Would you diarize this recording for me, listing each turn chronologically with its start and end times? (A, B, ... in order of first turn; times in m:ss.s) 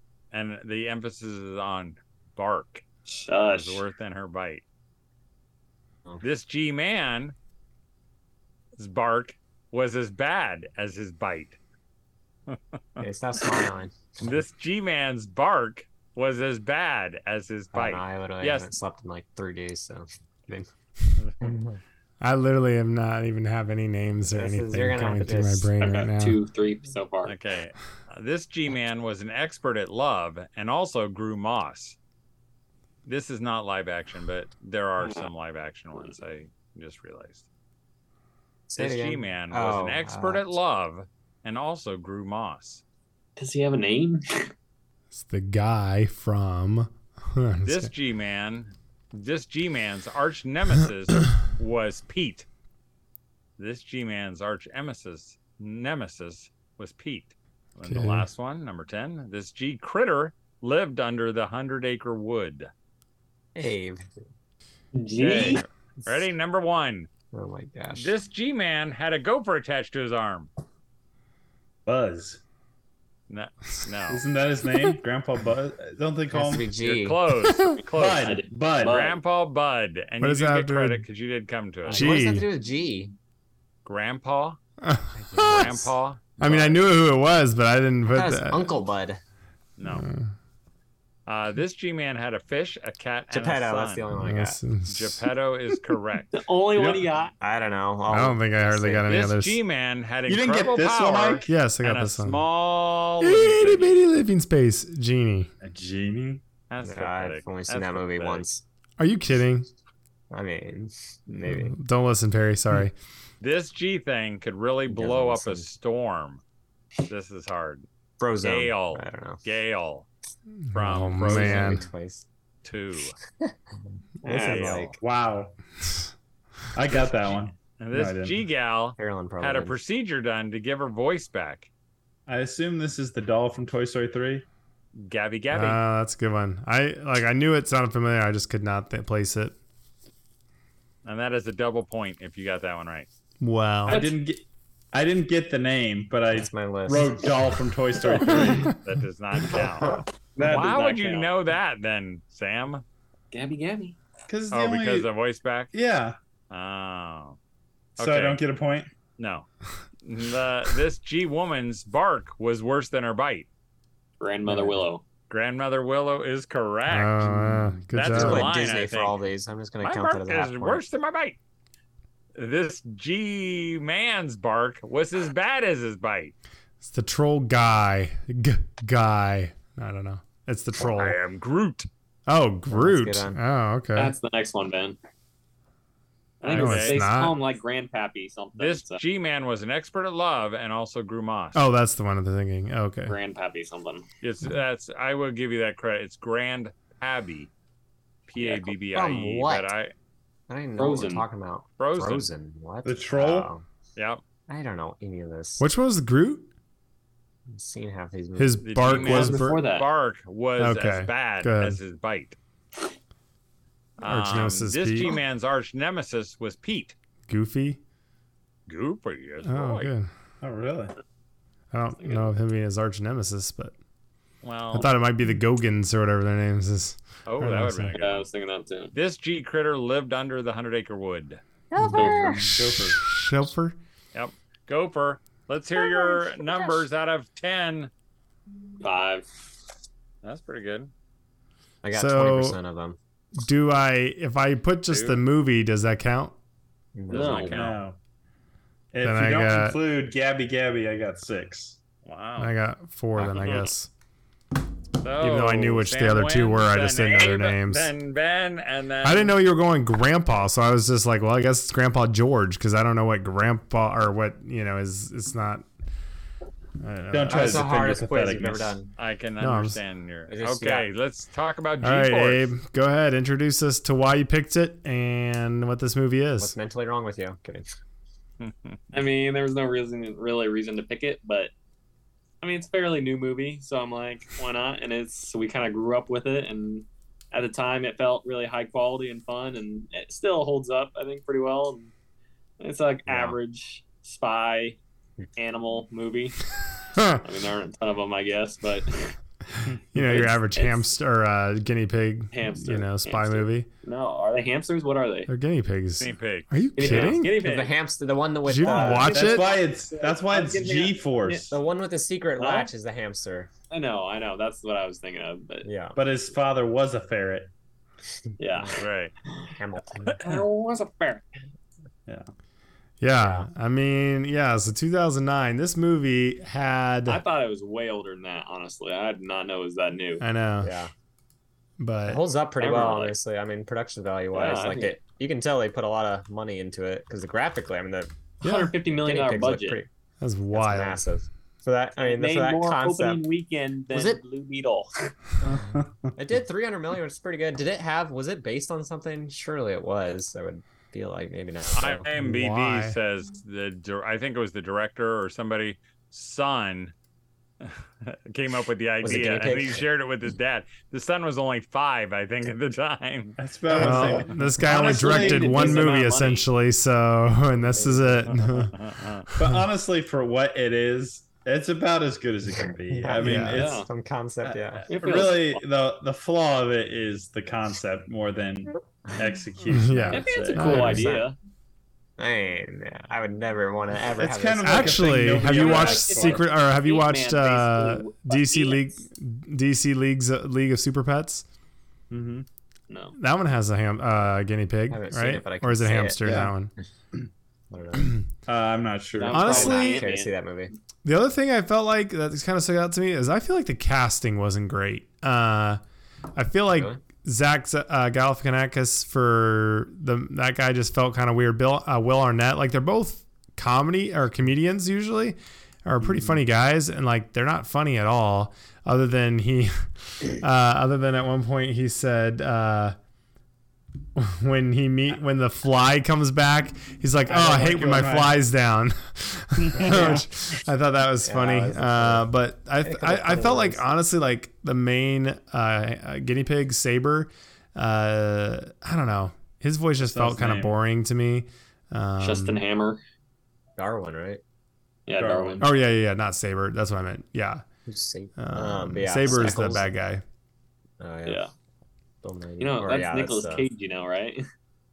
0:00.3-0:02.8 A
0:03.1-0:03.8 B
0:03.5-0:04.6 A
0:06.2-0:07.4 A
0:08.8-0:11.6 A
0:12.5-0:13.0 A
0:13.0-0:14.0 C
0:14.2-0:18.7 A
0:17.7-0:20.7 C
0:21.4-0:21.8 C
0:22.2-0:26.4 D
0:24.3-0:25.7 C
0:25.8-0:27.3 B
0:27.2-0:32.0 A
0:33.1-0:37.4 A
0:35.0-0:35.3 B
0:38.7-0:40.6 C
0:38.8-0:42.8 A
0:43.4-0:44.5 B
0:45.1-0:47.9 D
0:47.6-0:52.5 A
0:53.6-1:02.7 A
0:57.8-0:58.3 D
1:03.6-1:04.0 C
1:05.0-1:05.6 B
1:05.2-1:07.1 A
1:05.3-1:05.6 C
1:07.3-1:08.1 C
1:07.9-1:10.5 A
1:11.9-1:12.4 E
1:13.3-1:14.2 A
1:14.1-1:16.7 E
1:16.3-1:17.2 C
1:16.8-1:22.2 A
1:17.9-1:19.0 E
1:18.2-1:19.2 B
1:20.2-1:21.0 D
1:21.9-1:23.1 C
1:21.9-1:22.5 D
1:23.8-1:24.6 A
1:24.8-1:25.7 D
1:25.2-1:25.9 C
1:25.4-1:26.8 A
1:26.4-1:28.7 D
1:28.1-1:29.2 C
1:29.8-1:30.1 A
1:29.9-1:30.3 D
1:31.3-1:34.1 A
1:33.3-1:34.6 C
1:34.1-1:35.2 D
1:34.8-1:37.0 A
1:36.3-1:37.3 B
1:37.4-1:39.0 C
1:38.1-1:39.6 D
1:39.1-1:44.0 A
1:40.3-1:41.5 E
1:41.5-1:42.4 D
1:43.2-1:45.5 D
1:45.6-1:46.4 E
1:46.7-1:48.5 A
1:46.8-1:48.6 C
1:49.0-1:49.7 D
1:50.3-1:51.7 C
1:51.5-1:52.9 D
1:53.4-1:56.4 A
1:54.9-1:55.7 C
1:57.1-1:57.9 A
1:58.2-1:59.4 C
1:58.4-2:00.1 A
2:00.7-2:01.8 D
2:00.7-2:01.8 A
2:01.2-2:02.3 C
2:02.6-2:03.2 A
2:04.2-2:04.9 B
2:04.2-2:05.0 C
2:04.4-2:04.9 A
2:04.8-2:05.6 E
2:06.8-2:08.4 E
2:07.6-2:11.7 A
2:09.0-2:09.8 C
2:12.3-2:14.5 E
2:14.9-2:15.8 A
2:15.5-2:19.6 D
2:21.0-2:23.1 A
2:23.4-2:24.0 D
2:23.9-2:24.1 B
2:23.9-2:28.8 E
2:26.3-2:27.2 C
2:28.4-2:28.7 D
2:28.7-2:32.8 A
2:30.4-2:31.3 B
2:33.3-2:34.0 B
2:34.3-2:35.1 E
2:34.5-2:35.7 A
2:35.7-2:36.2 E
2:36.5-2:37.4 A
2:38.0-2:38.9 E
2:38.0-2:38.4 A
2:39.2-2:39.5 A
2:40.0-2:43.5 A
2:44.2-2:45.0 B
2:45.3-2:49.2 A
2:46.9-2:48.5 D
2:48.0-2:50.8 C
2:49.8-2:51.4 A
2:52.4-2:56.3 A
2:56.8-3:01.2 D
3:00.8-3:01.9 A
3:02.3-3:04.2 D
3:02.7-3:03.4 C
3:04.0-3:05.0 B
3:06.4-3:09.0 B
3:06.4-3:07.0 A
3:06.5-3:07.4 D
3:08.6-3:11.6 A
3:11.6-3:13.2 D
3:13.1-3:14.0 B
3:14.2-3:17.5 A
3:18.3-3:19.9 A
3:18.4-3:19.7 C
3:20.5-3:23.6 C
3:20.8-3:21.3 B
3:21.8-3:22.3 A
3:22.8-3:23.5 E
3:24.0-3:24.2 A
3:24.5-3:25.7 C
3:25.6-3:26.5 D
3:27.5-3:28.7 C
3:28.4-3:29.6 D
3:28.6-3:32.4 A
3:28.8-3:29.9 B
3:30.6-3:31.8 D
3:34.0-3:37.0 A
3:34.0-3:35.2 D
3:37.3-3:37.8 D
3:38.7-3:39.9 A
3:39.4-3:40.1 D
3:40.4-3:40.9 E
3:41.7-3:43.8 D
3:42.0-3:42.3 B
3:44.4-3:44.9 A
3:44.7-3:48.0 D
3:47.3-3:48.3 A
3:48.0-3:48.9 B
3:48.9-3:51.4 A
3:51.7-3:52.5 C
3:51.8-3:53.8 D
3:51.8-3:52.4 B
3:52.0-3:53.0 E
3:54.1-3:57.9 A
3:55.8-3:56.8 C
3:58.8-3:59.3 B
4:00.2-4:00.9 A
4:01.8-4:03.0 C
4:01.9-4:02.6 D
4:03.4-4:06.4 D
4:04.9-4:05.2 A
4:07.0-4:07.5 C
4:07.1-4:07.6 B
4:07.1-4:07.8 A
4:07.5-4:08.0 E
4:08.9-4:11.8 E
4:09.0-4:09.8 D
4:12.0-4:12.5 A
4:12.4-4:13.9 D
4:13.2-4:13.5 C
4:15.0-4:19.3 A
4:15.2-4:17.9 D
4:19.0-4:25.7 D
4:26.8-4:27.8 D
4:27.1-4:28.8 E
4:27.3-4:28.9 C
4:29.0-4:32.5 A
4:29.4-4:29.8 D
4:30.3-4:30.9 C
4:31.8-4:36.5 D
4:36.4-4:37.7 C
4:38.4-4:38.8 A
4:38.9-4:41.5 B
4:42.4-4:51.9 B
4:52.6-4:54.8 B
4:53.1-4:53.4 C
4:55.4-4:56.5 B
4:56.9-4:57.2 D
4:57.1-4:59.2 B
4:59.6-5:03.7 D
5:00.0-5:00.9 B
5:02.3-5:05.3 B
5:05.3-5:07.3 D
5:06.0-5:06.5 A
5:06.8-5:07.8 B
5:06.8-5:09.2 C
5:08.4-5:09.5 D
5:08.6-5:11.5 B
5:08.9-5:11.6 E
5:11.5-5:13.5 C
5:12.4-5:12.7 B
5:13.7-5:15.7 B
5:15.6-5:16.0 C
5:16.0-5:17.5 E
5:18.4-5:19.5 B
5:18.8-5:19.1 A
5:19.6-5:20.2 C
5:20.2-5:21.2 B
5:23.0-5:27.2 D
5:23.1-5:23.5 C
5:27.1-5:30.2 B
5:30.2-5:30.7 D
5:30.6-5:30.9 C
5:31.8-5:32.2 D
5:32.1-5:38.1 C
5:32.6-5:33.2 B
5:34.3-5:35.0 B
5:38.4-5:39.8 B
5:38.4-5:38.8 D
5:39.0-5:39.9 C
5:40.2-5:41.0 D
5:40.5-5:43.2 C
5:42.0-5:45.1 B
5:43.9-5:44.2 C
5:45.4-5:46.2 E
5:45.4-5:52.1 C
5:51.7-5:56.9 A
5:52.2-5:53.0 D
5:57.6-6:03.4 A
5:59.0-5:59.8 C
6:03.4-6:05.9 E
6:03.7-6:08.8 D
6:03.9-6:04.1 B
6:04.6-6:06.5 B
6:07.6-6:08.4 C
6:08.5-6:09.2 A
6:09.3-6:09.6 D
6:09.4-6:13.8 E
6:12.9-6:14.9 C
6:13.2-6:13.7 D
6:13.6-6:13.9 B
6:14.9-6:15.6 B
6:14.9-6:21.0 E
6:19.7-6:21.2 D
6:20.1-6:21.4 B
6:20.6-6:21.3 C
6:22.2-6:26.4 C
6:24.2-6:26.4 E
6:24.6-6:31.4 D
6:25.4-6:28.9 B
6:32.1-6:32.5 E
6:32.9-6:33.2 B
6:33.2-6:36.7 D
6:34.9-6:36.5 C
6:36.2-6:36.5 E
6:37.7-6:38.2 C
6:38.5-6:39.6 E
6:39.2-6:40.3 B
6:39.3-6:40.1 D
6:39.4-6:40.7 C
6:41.0-6:45.8 D
6:46.4-7:03.0 D
6:46.7-6:47.0 C
6:56.0-6:56.4 E
7:04.2-7:22.6 D
7:07.3-7:08.4 E
7:09.6-7:10.3 E
7:11.2-7:12.3 C
7:12.8-7:13.8 C
7:20.0-7:20.8 E
7:22.2-7:23.0 B
7:23.8-7:24.4 C
7:25.1-7:25.7 B
7:25.2-7:25.7 E
7:25.6-7:27.6 D
7:27.9-7:29.9 C
7:28.4-7:30.2 D
7:31.0-7:31.4 C
7:31.3-7:31.5 B
7:32.2-7:33.6 C
7:32.6-7:34.4 B